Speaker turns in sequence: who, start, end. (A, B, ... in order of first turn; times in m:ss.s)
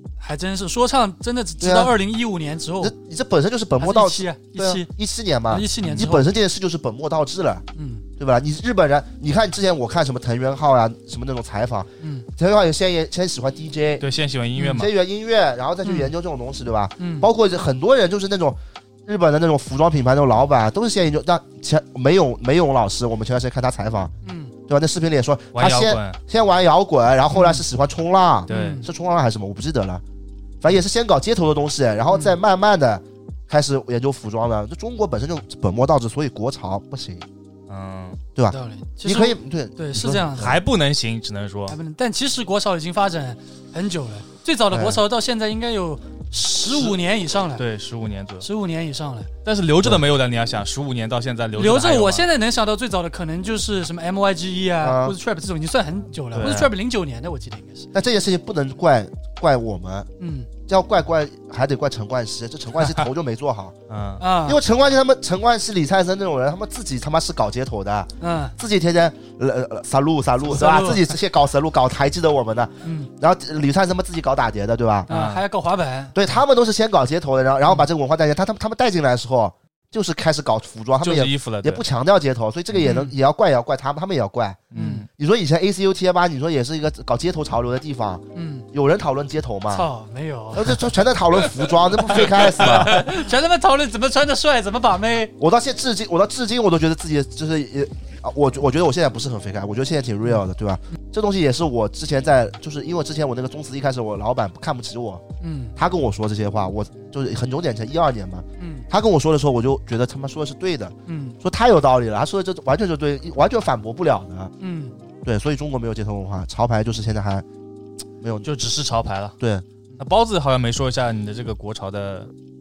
0:00.2-0:02.9 A
0:01.6-0:01.9 B
0:02.8-0:07.6 B
0:03.8-0:04.9 A
0:05.5-0:06.3 A
0:05.8-0:06.1 C
0:07.7-0:08.0 A
0:08.2-0:14.1 B
0:12.0-0:12.3 A
0:14.0-0:14.9 C
0:14.6-0:14.8 A
0:14.7-0:24.1 B
0:15.8-0:16.1 A
0:17.0-0:17.3 A
0:24.2-0:24.5 A
0:24.7-0:30.0 B
0:25.5-0:26.2 C
0:27.3-0:27.6 A
0:28.5-0:28.8 C
0:28.5-0:28.9 A
0:30.6-0:37.3 B
0:32.1-0:32.4 A
0:37.7-0:38.2 C
0:38.4-0:40.6 B
0:38.5-0:40.6 A
0:40.4-0:41.8 C
0:41.7-0:47.6 A
0:44.7-0:45.0 B
0:46.7-0:47.0 C
0:47.6-0:48.5 C
0:48.4-0:49.3 A
0:49.4-0:52.2 C
0:51.6-0:57.9 A
0:54.8-0:55.2 B
0:56.4-0:56.7 C
0:57.9-1:00.1 B
1:00.2-1:00.5 A
1:00.7-1:03.7 B
1:03.9-1:04.2 C
1:04.2-1:04.6 A
1:04.4-1:15.1 B
1:08.2-1:08.6 A
1:10.4-1:11.1 A
1:12.8-1:13.1 A
1:15.1-1:15.4 C
1:15.1-1:16.2 A
1:16.1-1:29.9 B
1:21.0-1:21.8 C
1:22.8-1:23.1 A
1:24.7-1:25.0 C
1:24.7-1:25.1 A
1:28.3-1:28.6 A
1:29.7-1:30.9 A
1:30.5-1:33.0 B
1:32.2-1:35.3 A
1:32.2-1:33.0 C
1:35.4-1:45.2 B
1:45.4-1:45.7 A
1:45.8-1:54.5 B
1:48.6-1:48.9 A
1:51.1-1:51.4 A
1:54.6-1:54.9 A
1:55.2-1:57.4 B
1:58.2-1:58.5 B
1:58.4-1:59.4 C
1:59.4-1:59.6 B
2:00.0-2:02.3 C